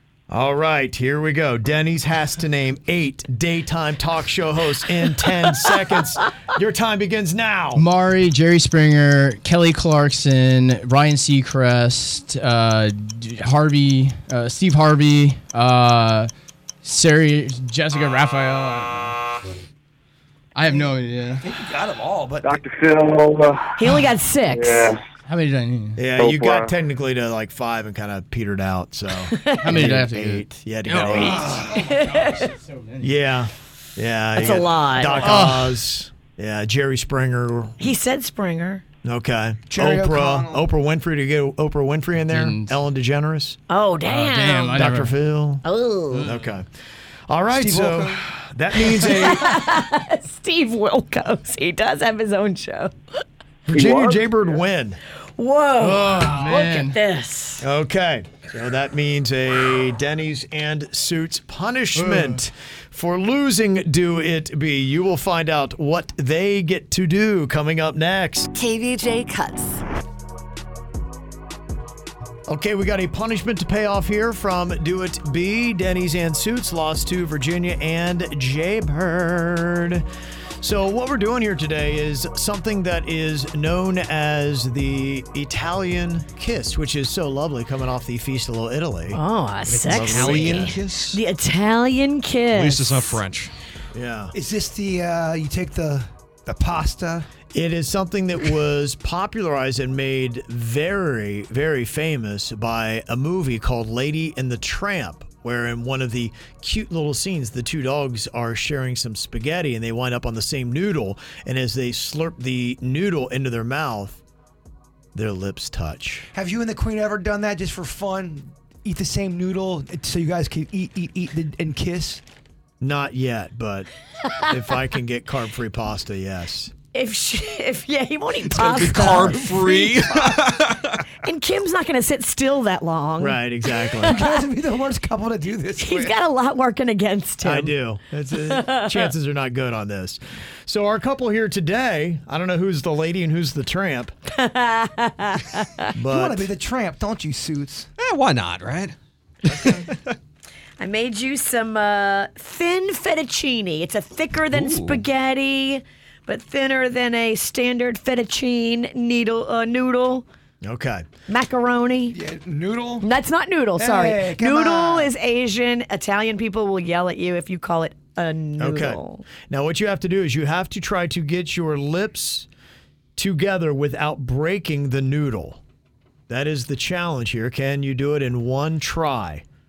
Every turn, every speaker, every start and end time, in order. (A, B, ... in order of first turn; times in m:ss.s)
0:00.3-0:07.9 A
0:07.8-0:16.3 B
0:16.8-0:19.2 B
0:20.6-0:21.5 B
0:21.4-0:22.6 C
0:22.4-0:24.0 D
0:23.8-0:25.0 E
0:24.5-0:25.0 D
0:25.3-0:26.0 B
0:26.0-0:31.6 A
0:26.2-0:26.7 D
0:29.3-0:29.8 E
0:29.6-0:33.2 B
0:30.9-0:31.8 C
0:31.7-0:32.4 E
0:33.0-0:38.0 A
0:34.4-0:35.4 E
0:35.2-0:35.8 B
0:37.8-0:38.8 E
0:39.0-0:43.6 A
0:39.7-0:40.6 C
0:42.2-0:42.8 B
0:43.7-0:44.9 E
0:44.0-0:45.2 B
0:44.8-0:45.7 A
0:45.6-0:46.3 E
0:46.1-0:46.6 B
0:46.2-0:46.7 A
0:47.3-0:49.5 A
0:47.6-0:48.3 C
0:48.8-0:52.9 E
0:53.7-0:55.0 A
0:53.7-0:54.5 D
0:55.4-0:57.6 E
0:55.8-0:56.9 B
0:57.6-1:08.5 A
1:02.0-1:02.5 B
1:08.6-1:09.8 E
1:12.5-1:20.0 A
1:20.6-1:29.2 A
1:29.1-1:33.0 E
1:29.7-1:31.2 F
1:29.9-1:30.8 A
1:32.5-1:33.5 F
1:33.9-1:34.3 A
1:34.3-1:37.3 C
1:37.5-1:54.2 A
1:55.2-1:56.3 A
1:56.4-2:02.2 C
2:02.8-2:03.9 A
2:04.4-2:06.7 A
2:06.9-2:10.0 E
2:08.4-2:10.2 C
2:09.1-2:11.0 F
2:11.2-2:14.4 E
2:13.2-2:14.2 A
2:14.0-2:16.1 C
2:15.8-2:17.8 E
2:17.4-2:24.1 A
2:18.3-2:19.1 E
2:24.3-2:25.9 E
2:26.0-2:26.5 A
2:26.1-2:27.9 C
2:28.0-2:29.0 F
2:30.8-2:40.2 E
2:34.5-2:35.0 F
2:40.6-2:41.1 A
2:41.3-2:42.2 E
2:42.1-2:43.1 C
2:43.0-2:49.2 E
2:43.8-2:45.1 C
2:48.6-2:52.5 A
2:53.2-2:55.6 A
2:56.3-2:59.4 A